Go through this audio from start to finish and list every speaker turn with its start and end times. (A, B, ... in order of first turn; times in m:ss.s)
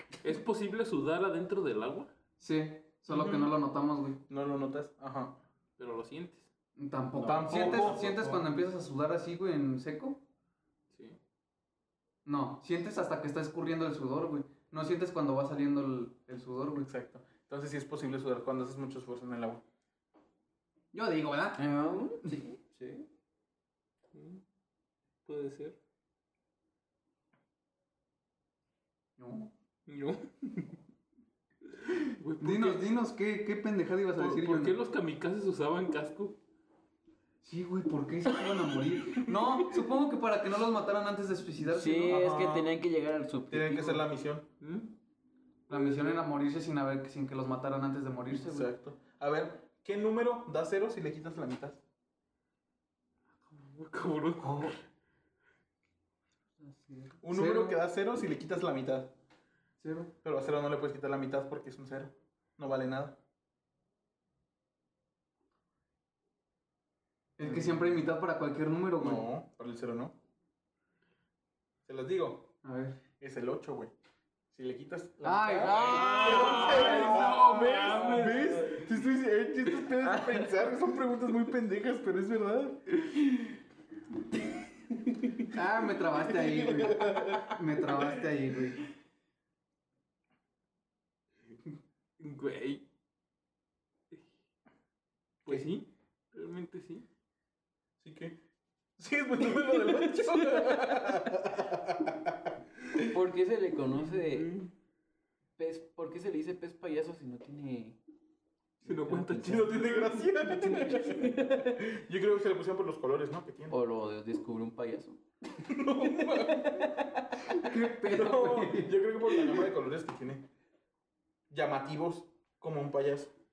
0:00.2-0:02.1 A
0:02.4-0:04.2 B
0:03.1-0:03.6 C
0:04.3-0:05.4 C
0:05.8-0:06.5 A
0:06.8-0:10.2 B
0:07.2-0:08.4 C
0:07.5-0:08.0 A
0:10.9-0:11.2 A
0:12.2-0:16.9 B
0:16.8-0:19.6 C
0:20.9-0:21.6 B
0:21.6-0:23.1 D
0:24.1-0:24.4 A
0:25.2-0:25.8 A
0:29.2-0:29.5 B
0:29.9-0:30.7 A
0:31.9-0:32.9 A
0:32.4-0:34.7 B
0:34.1-0:36.4 A
0:37.4-0:42.3 B
0:41.7-0:44.0 D
0:42.0-0:42.7 C
0:43.5-0:44.5 C
0:44.6-0:45.0 A
0:45.7-0:48.7 B
0:45.7-0:46.2 A
0:48.3-0:51.8 C
0:53.5-0:54.8 A
0:54.4-0:54.7 B
0:56.6-0:57.1 D
0:57.2-0:59.1 C
0:57.3-0:57.8 B
0:59.8-1:00.1 B
1:00.2-1:03.2 C
1:07.4-1:09.2 B
1:07.4-1:07.8 C
1:09.0-1:10.2 C
1:11.8-1:12.5 C
1:12.6-1:13.0 B
1:13.2-1:13.9 C
1:14.5-1:23.0 C
1:15.2-1:17.8 B
1:15.6-1:18.8 D
1:15.9-1:18.7 A
1:20.0-1:20.5 D
1:25.5-1:28.9 B
1:26.1-1:28.3 C
1:32.2-1:32.8 A
1:35.4-1:37.0 A
1:38.0-1:38.4 C
1:39.0-1:42.8 C
1:39.6-1:41.2 D
1:43.1-1:44.6 D
1:44.0-1:44.7 A
1:45.6-1:48.0 D
1:48.8-1:49.8 D
1:48.8-1:50.9 A
1:49.5-1:53.7 C
1:50.4-1:51.9 D
1:53.7-1:55.2 D
1:55.6-1:57.1 C
1:56.0-1:57.2 D
1:57.5-1:59.0 B
1:58.0-2:00.5 C
2:01.5-2:03.3 C